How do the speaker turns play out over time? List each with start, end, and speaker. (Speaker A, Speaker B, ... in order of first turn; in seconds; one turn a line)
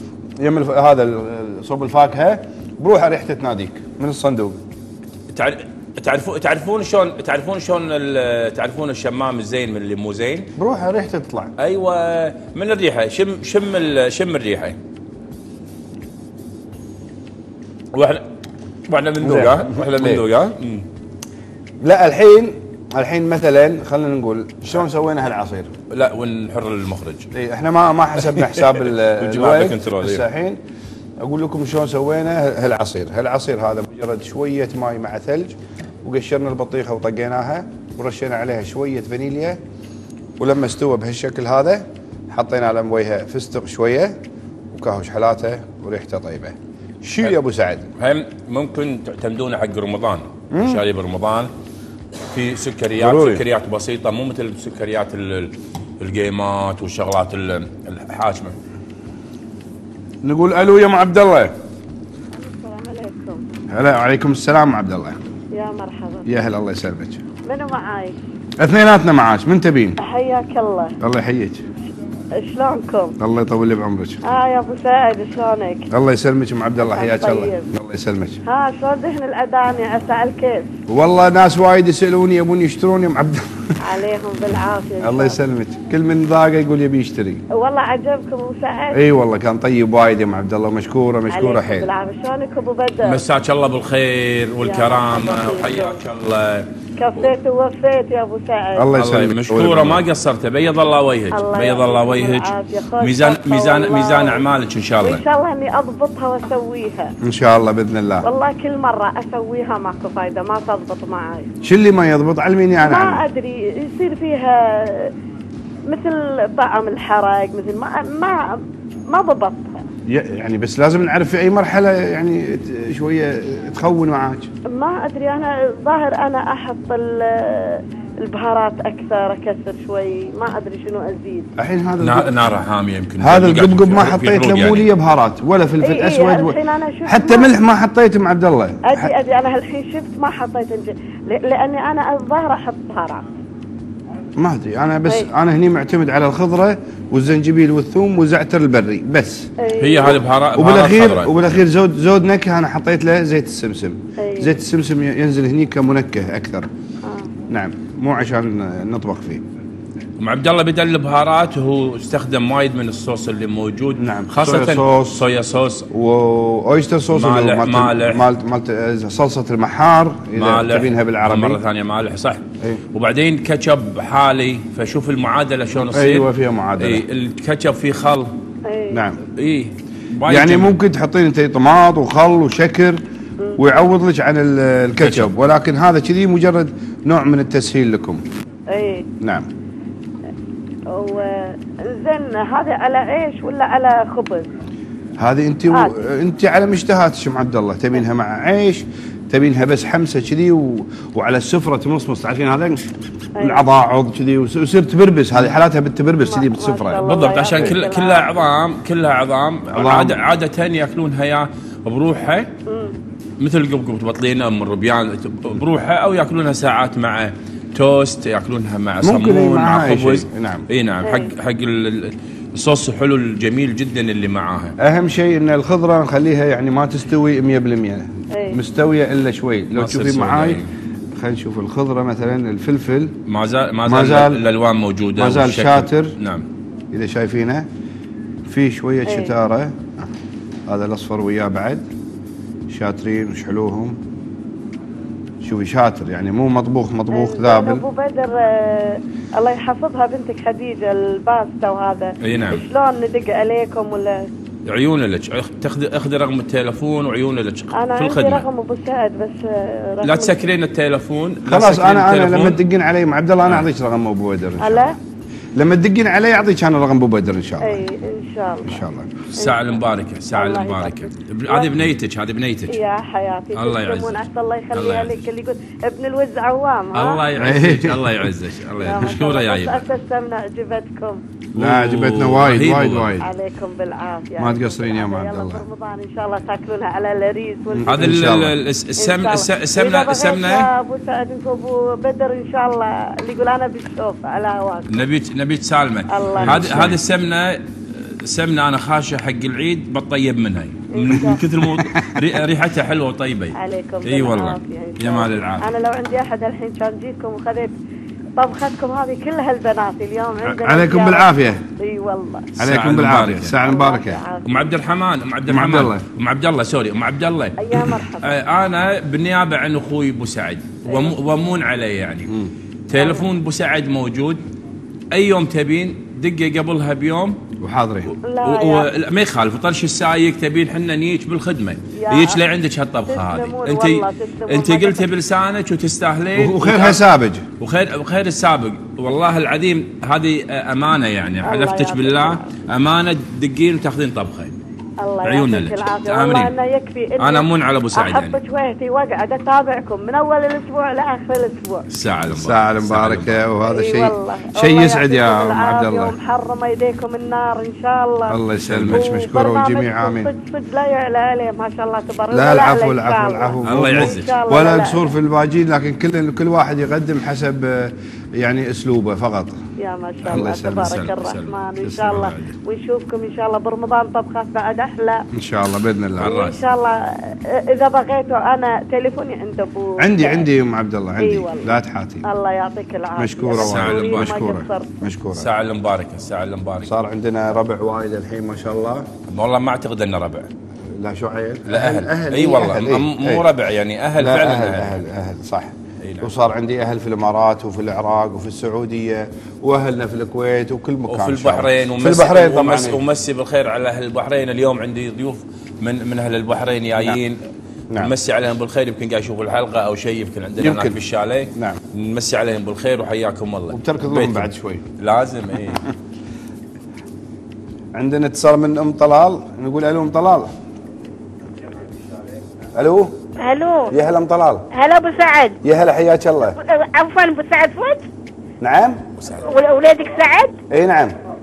Speaker A: 0.4-4.6
Speaker B: 5.3-10.5
Speaker A: 10.6-11.5
Speaker B: 11.6-14.8
Speaker B: 17.9-18.2
Speaker B: 18.9-20.9
Speaker A: 19.2-20.2
Speaker A: 21.8-25.7
Speaker B: 25.9-27.3
Speaker A: 27.3-30.6
Speaker B: 28.4-30.2
Speaker A: 31.2-39.6
Speaker A: 40.4-44.2
Speaker A: 44.7-47.9
Speaker B: 48.0-51.5
Speaker A: 50.5-50.8
Speaker B: 52.3-58.5
Speaker A: 53.0-53.4
Speaker A: 60.2-61.5
Speaker C: 62.4-63.4
Speaker A: 63.7-65.2
Speaker C: 65.5-66.3
Speaker A: 66.2-67.2
Speaker C: 67.4-68.2
Speaker A: 68.6-70.0
Speaker C: 70.0-70.9
Speaker A: 71.0-71.6
Speaker C: 72.4-73.2
Speaker A: 73.2-74.2
Speaker C: 74.2-75.9
Speaker A: 75.9-78.4
Speaker C: 76.8-77.7
Speaker C: 78.5-80.7
Speaker A: 80.9-83.8
Speaker C: 83.8-85.4
Speaker A: 85.0-87.4
Speaker C: 87.5-89.1
Speaker A: 88.9-91.9
Speaker C: 91.3-93.2
Speaker B: 93.0-96.7
Speaker C: 94.6-96.0
Speaker C: 97.0-98.9
Speaker A: 98.8-100.0
Speaker B: 98.9-105.2
Speaker C: 101.3-104.5
Speaker C: 105.0-107.1
Speaker A: 107.2-108.3
Speaker C: 108.2-111.5
Speaker A: 111.6-113.2
Speaker C: 112.8-115.1
Speaker C: 115.9-119.8
Speaker A: 120.1-124.5
Speaker C: 124.7-131.5
Speaker A: 131.6-132.4
Speaker B: 132.0-134.9
Speaker A: 133.2-139.1
Speaker C: 135.8-137.5
Speaker C: 138.8-143.2
Speaker A: 144.4-149.5
Speaker C: 149.6-150.2
Speaker B: 149.8-151.6
Speaker A: 150.5-156.7
Speaker C: 154.2-154.6
Speaker C: 157.0-157.3
Speaker A: 157.5-159.4
Speaker B: 160.2-165.9
Speaker A: 164.0-165.2
Speaker A: 165.9-171.6
Speaker B: 167.1-168.3
Speaker B: 170.3-178.3
Speaker A: 175.7-177.0
Speaker C: 178.7-179.0
Speaker A: 178.9-179.2
Speaker B: 179.3-180.8
Speaker A: 180.2-183.0
Speaker A: 183.6-188.2
Speaker B: 185.0-185.3
Speaker C: 188.7-189.1
Speaker A: 189.2-189.5
Speaker C: 190.9-194.5
Speaker A: 195.2-207.8
Speaker C: 203.4-203.6
Speaker C: 206.2-208.4
Speaker B: 207.0-212.5
Speaker A: 209.7-210.2
Speaker C: 212.7-212.9
Speaker B: 213.4-224.7
Speaker A: 219.0-220.7
Speaker C: 221.0-221.3
Speaker A: 224.8-230.6
Speaker C: 228.3-228.6
Speaker B: 229.7-230.7
Speaker A: 231.2-233.2
Speaker B: 233.2-236.4
Speaker A: 233.8-234.4
Speaker A: 235.2-236.1
Speaker A: 236.9-237.7
Speaker A: 238.4-240.1
Speaker C: 239.0-239.4
Speaker A: 240.7-241.8
Speaker A: 242.7-244.0
Speaker A: 245.4-247.8
Speaker C: 247.1-254.3
Speaker B: 252.2-252.6
Speaker B: 254.7-258.5
Speaker C: 257.7-260.4
Speaker B: 260.0-262.6
Speaker A: 261.4-264.9
Speaker C: 264.6-265.0
Speaker A: 265.6-267.8
Speaker C: 267.6-268.8
Speaker A: 268.6-269.1
Speaker B: 269.3-272.8
Speaker C: 269.4-269.8
Speaker C: 270.3-271.8
Speaker C: 272.7-277.3
Speaker B: 273.5-274.2
Speaker B: 274.7-275.2
Speaker B: 276.9-279.9
Speaker A: 277.3-278.3
Speaker C: 278.8-281.2
Speaker A: 281.5-283.3
Speaker B: 281.6-283.1
Speaker C: 283.2-288.1
Speaker A: 284.4-285.6
Speaker A: 287.7-288.5
Speaker B: 287.8-290.7
Speaker C: 289.0-294.9
Speaker B: 294.9-305.7
Speaker C: 296.1-296.6
Speaker A: 296.4-297.0
Speaker C: 300.9-301.4
Speaker A: 301.8-302.1
Speaker C: 303.5-307.7
Speaker C: 308.4-312.5
Speaker A: 310.4-311.6
Speaker B: 312.6-313.5
Speaker A: 312.6-314.2
Speaker C: 313.5-314.7
Speaker B: 314.4-322.3
Speaker A: 315.5-316.0
Speaker C: 317.6-318.3
Speaker C: 320.9-321.1
Speaker B: 322.9-324.4
Speaker C: 322.9-323.3
Speaker B: 325.1-327.4
Speaker A: 327.6-328.1
Speaker C: 328.2-328.9
Speaker B: 328.4-337.0
Speaker C: 331.9-332.4
Speaker C: 333.1-335.1
Speaker A: 336.4-337.4
Speaker B: 337.6-344.5
Speaker C: 341.4-342.6
Speaker C: 345.0-351.8
Speaker B: 345.2-346.5
Speaker B: 347.2-348.4
Speaker B: 351.9-353.4
Speaker A: 352.3-356.1
Speaker C: 353.6-365.1
Speaker A: 358.3-360.3
Speaker B: 358.7-359.1
Speaker A: 362.3-369.6
Speaker B: 363.6-364.4
Speaker C: 369.8-375.3
Speaker A: 370.3-370.9
Speaker B: 370.3-372.5
Speaker A: 371.8-372.3
Speaker A: 375.3-376.4
Speaker B: 376.2-376.6
Speaker C: 376.2-380.5
Speaker A: 380.0-382.2
Speaker C: 381.2-384.9
Speaker A: 383.2-385.5
Speaker B: 383.6-384.4
Speaker B: 385.3-386.9
Speaker A: 386.8-389.1
Speaker B: 389.3-390.5
Speaker A: 390.8-393.4
Speaker B: 391.7-395.0
Speaker A: 394.1-403.0
Speaker B: 396.0-396.3
Speaker B: 401.1-407.4
Speaker B: 407.9-415.8
Speaker A: 410.6-411.0
Speaker A: 411.5-411.8
Speaker A: 413.7-414.8
Speaker A: 417.9-420.5
Speaker A: 422.7-423.1
Speaker D: 423.4-423.9
Speaker A: 423.9-424.6
Speaker D: 424.7-425.6
Speaker A: 425.6-426.6
Speaker D: 426.6-428.1
Speaker A: 428.6-429.0
Speaker B: 429.2-429.4
Speaker D: 429.4-430.6
Speaker A: 430.7-431.1